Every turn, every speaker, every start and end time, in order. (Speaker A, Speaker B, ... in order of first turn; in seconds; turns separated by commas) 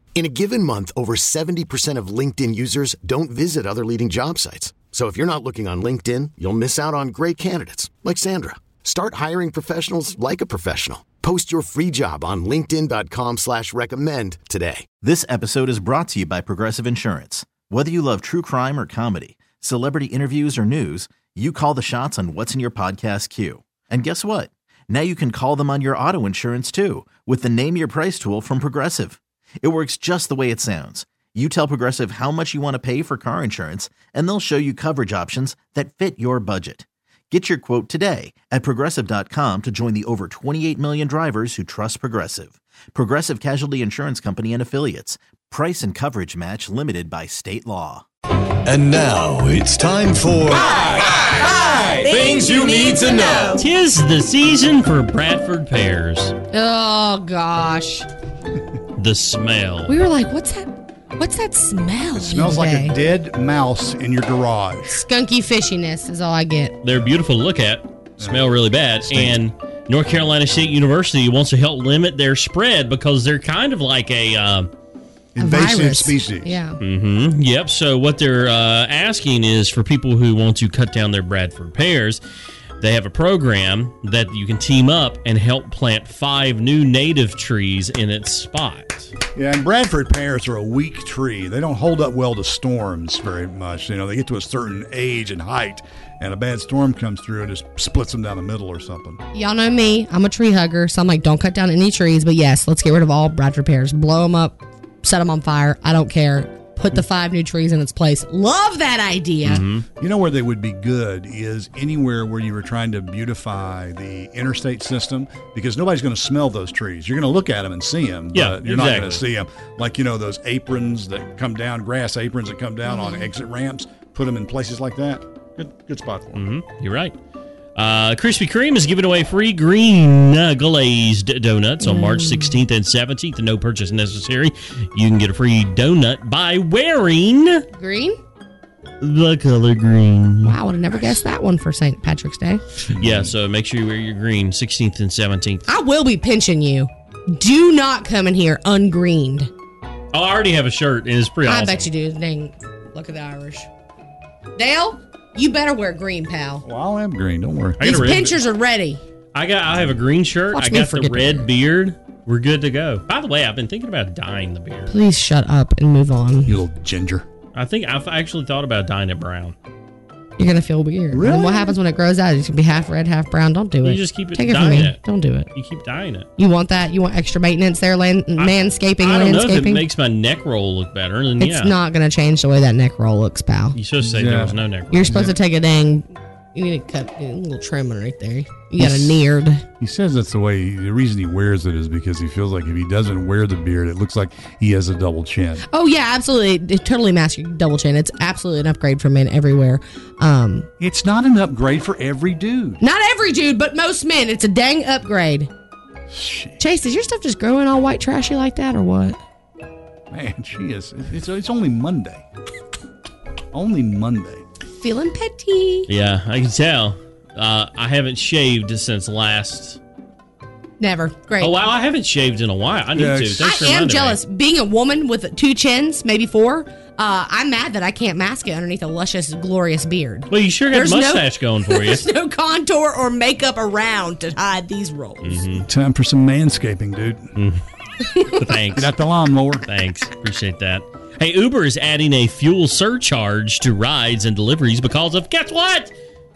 Speaker A: 0.1-14.9, Speaker B: 15.0-48.0, Speaker C: 48.7-50.6, Speaker D: 53.5-56.3, Speaker E: 56.5-58.1, Speaker D: 59.0-60.0, Speaker E: 59.9-63.0, Speaker F: 62.2-65.0, Speaker E: 64.9-66.8, Speaker D: 66.8-74.7, Speaker F: 68.2-69.4, Speaker F: 75.3-76.6, Speaker E: 75.4-76.8, Speaker D: 76.8-82.2, Speaker D: 82.8-89.1, Speaker F: 89.3-99.2, Speaker E: 99.3-109.6, Speaker D: 109.5-109.8, Speaker F: 110.0-126.4, Speaker D: 118.3-119.2, Speaker E: 122.9-123.3, Speaker D: 126.3-127.2, Speaker D: 127.8-137.6, Speaker E: 131.8-132.6, Speaker E: 137.7-138.2, Speaker D: 139.0-140.6, Speaker E: 140.4-142.6, Speaker D: 142.9-145.7, Speaker F: 142.9-143.3, Speaker E: 145.7-149.5, Speaker D: 150.1-151.9, Speaker E: 151.4-153.7, Speaker E: 154.6-156.7, Speaker F: 156.7-158.2, Speaker D: 157.8-158.3, Speaker E: 157.8-159.0, Speaker D: 159.3-164.9, Speaker E: 160.5-161.5, Speaker E: 164.9-166.6, Speaker F: 166.5-167.2, Speaker D: 167.6-169.6, Speaker E: 170.4-175.5, Speaker F: 171.1-171.8, Speaker D: 173.8-176.3, Speaker E: 176.4-179.8, Speaker D: 178.4-181.8, Speaker E: 181.4-183.8, Speaker D: 183.7-185.3, Speaker F: 184.1-185.3, Speaker E: 184.9-189.6, Speaker F: 188.8-189.2, Speaker F: 189.8-195.7, Speaker E: 195.7-200.7, Speaker F: 200.8-202.8, Speaker E: 202.8-205.5, Speaker F: 206.1-206.6, Speaker E: 206.6-209.2, Speaker F: 210.1-212.2, Speaker F: 213.5-214.4, Speaker E: 214.8-215.9, Speaker D: 215.9-219.8, Speaker E: 220.8-221.6, Speaker D: 221.4-224.2, Speaker F: 222.9-223.4, Speaker E: 223.4-235.5, Speaker D: 230.3-232.1, Speaker D: 235.2-235.7, Speaker F: 235.7-237.3, Speaker D: 237.4-237.6, Speaker E: 238.0-238.4, Speaker D: 238.3-238.9, Speaker F: 238.8-239.7, Speaker D: 239.7-245.9